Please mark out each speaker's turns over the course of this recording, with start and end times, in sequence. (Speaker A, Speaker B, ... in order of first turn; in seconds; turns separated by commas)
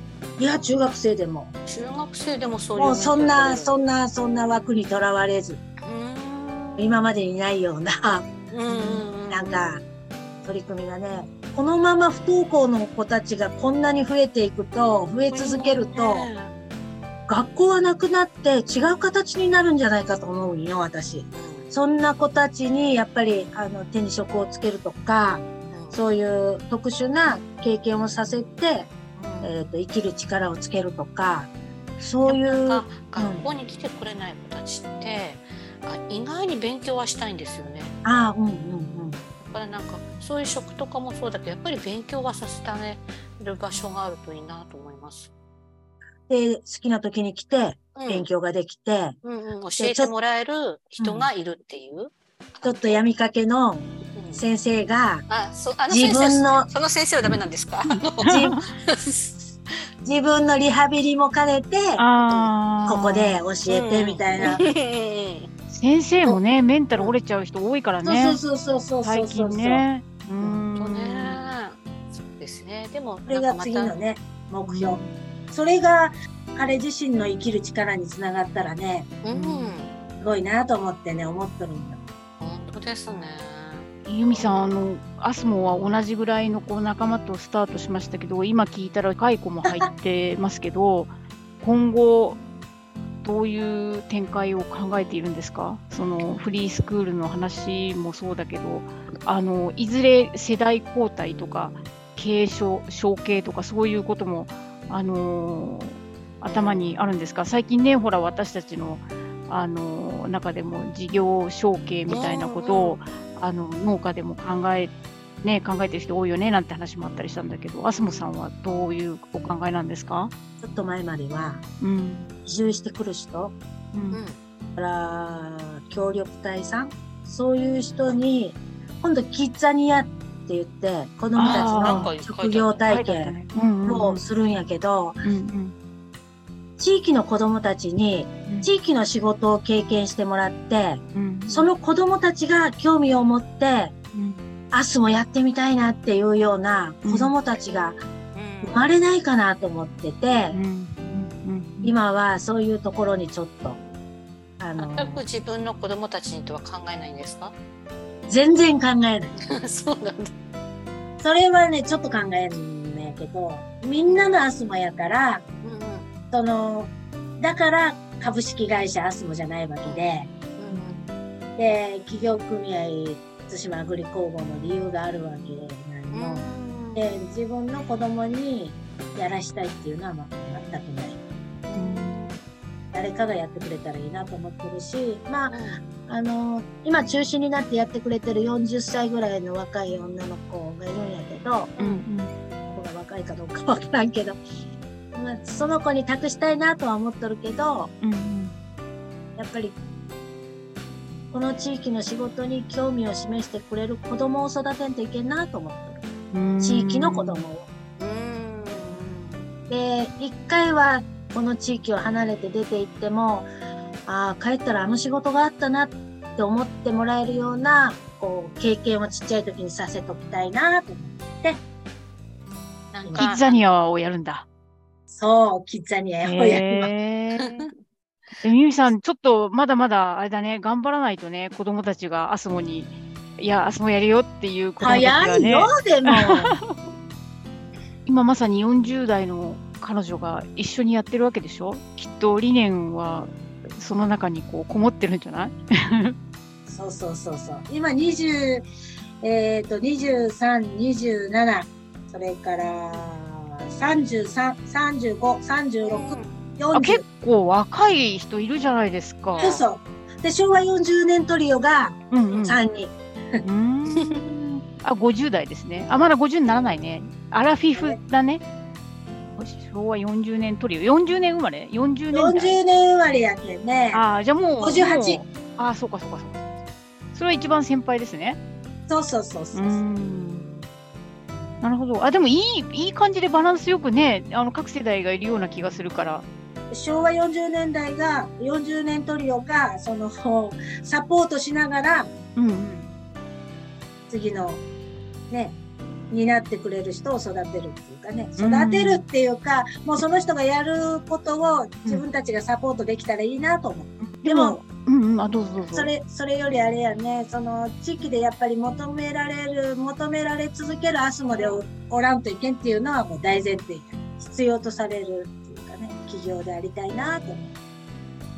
Speaker A: 0.4-1.5, Speaker B: 1.6-3.7, Speaker A: 2.7-5.6, Speaker B: 5.8-7.0, Speaker A: 6.8-8.2, Speaker B: 8.5-9.6, Speaker C: 8.7-9.1, Speaker A: 9.3-9.8, Speaker A: 10.4-16.3, Speaker B: 15.3-16.5, Speaker A: 17.3-28.9, Speaker B: 21.3-21.6, Speaker B: 25.7-26.0, Speaker B: 29.1-29.5, Speaker A: 29.4-33.5, Speaker B: 32.0-37.9, Speaker A: 38.0-39.2, Speaker B: 39.4-45.3, Speaker A: 46.3-49.1, Speaker B: 47.9-48.2, Speaker B: 49.2-53.0, Speaker A: 49.8-50.1, Speaker A: 52.6-55.2, Speaker B: 54.1-54.4, Speaker B: 55.3-59.8, Speaker A: 55.9-56.7, Speaker C: 58.3-58.6, Speaker A: 58.3-58.6, Speaker A: 60.0-62.0, Speaker C: 62.0-63.4, Speaker A: 62.9-64.6, Speaker B: 63.6-65.5, Speaker C: 65.7-68.4, Speaker A: 68.0-69.8, Speaker C: 69.0-71.5, Speaker B: 70.7-73.9, Speaker A: 73.3-75.0, Speaker C: 74.7-75.1, Speaker A: 75.5-79.1, Speaker B: 79.2-79.9, Speaker C: 79.3-79.8, Speaker A: 80.2-82.0, Speaker B: 82.4-84.4, Speaker C: 84.0-92.4, Speaker C: 93.2-120.3, Speaker B: 106.4-107.0, Speaker B: 112.1-113.0, Speaker B: 117.9-118.3, Speaker A: 120.6-121.6, Speaker C: 121.8-122.3, Speaker A: 122.4-123.5, Speaker C: 123.9-124.2, Speaker B: 124.1-124.4, Speaker A: 124.8-135.2, Speaker C: 131.3-132.1, Speaker B: 131.4-132.9, Speaker C: 132.9-134.2, Speaker C: 135.2-135.7, Speaker A: 136.8-143.9, Speaker C: 141.1-141.7, Speaker C: 144.1-144.4, Speaker A: 144.7-148.0, Speaker C: 147.0-147.3, Speaker B: 148.3-148.8, Speaker A: 148.6-150.6, Speaker C: 150.5-151.9, Speaker A: 151.8-153.8, Speaker A: 154.6-155.2, Speaker B: 154.8-157.5, Speaker A: 158.3-159.3, Speaker B: 159.4-160.3, Speaker A: 161.2-165.4, Speaker B: 164.1-164.3, Speaker B: 165.6-166.1, Speaker A: 166.3-170.3, Speaker B: 170.6-171.0, Speaker C: 170.7-171.1, Speaker A: 171.6-181.2, Speaker B: 176.1-177.1, Speaker B: 181.7-182.3, Speaker C: 181.8-182.4, Speaker A: 182.9-191.8, Speaker B: 185.5-185.8, Speaker B: 191.8-192.0, Speaker C: 191.8-192.3, Speaker A: 192.7-194.4, Speaker A: 195.1-197.9, Speaker C: 198.0-198.5, Speaker A: 199.4-199.8, Speaker A: 201.3-206.1, Speaker C: 206.3-207.4, Speaker A: 206.6-207.7, Speaker B: 208.0-209.1, Speaker A: 209.7-213.5, Speaker A: 214.1-221.6, Speaker B: 222.9-223.6, Speaker A: 223.0-223.3, Speaker C: 223.2-224.4, Speaker A: 225.1-226.9, Speaker C: 226.2-227.7, Speaker C: 228.4-236.8, Speaker A: 234.8-236.6, Speaker C: 238.1-246.1, Speaker A: 246.7-248.6, Speaker A: 249.2-257.0, Speaker B: 255.8-256.3, Speaker C: 256.7-259.6, Speaker B: 259.3-259.6, Speaker A: 259.4-263.4, Speaker C: 262.1-262.6, Speaker C: 263.4-268.4, Speaker B: 264.0-264.2, Speaker A: 267.7-268.0, Speaker C: 269.4-272.6, Speaker A: 272.1-274.0, Speaker C: 273.9-276.4, Speaker A: 274.6-275.2, Speaker C: 277.1-278.4, Speaker A: 278.9-279.8, Speaker C: 279.5-280.4, Speaker C: 281.6-286.2, Speaker A: 286.7-292.1, Speaker C: 292.4-292.9, Speaker A: 294.1-294.6, Speaker A: 295.3-295.6, Speaker A: 296.1-304.6, Speaker C: 298.4-299.0, Speaker C: 304.0-305.9, Speaker A: 305.7-317.5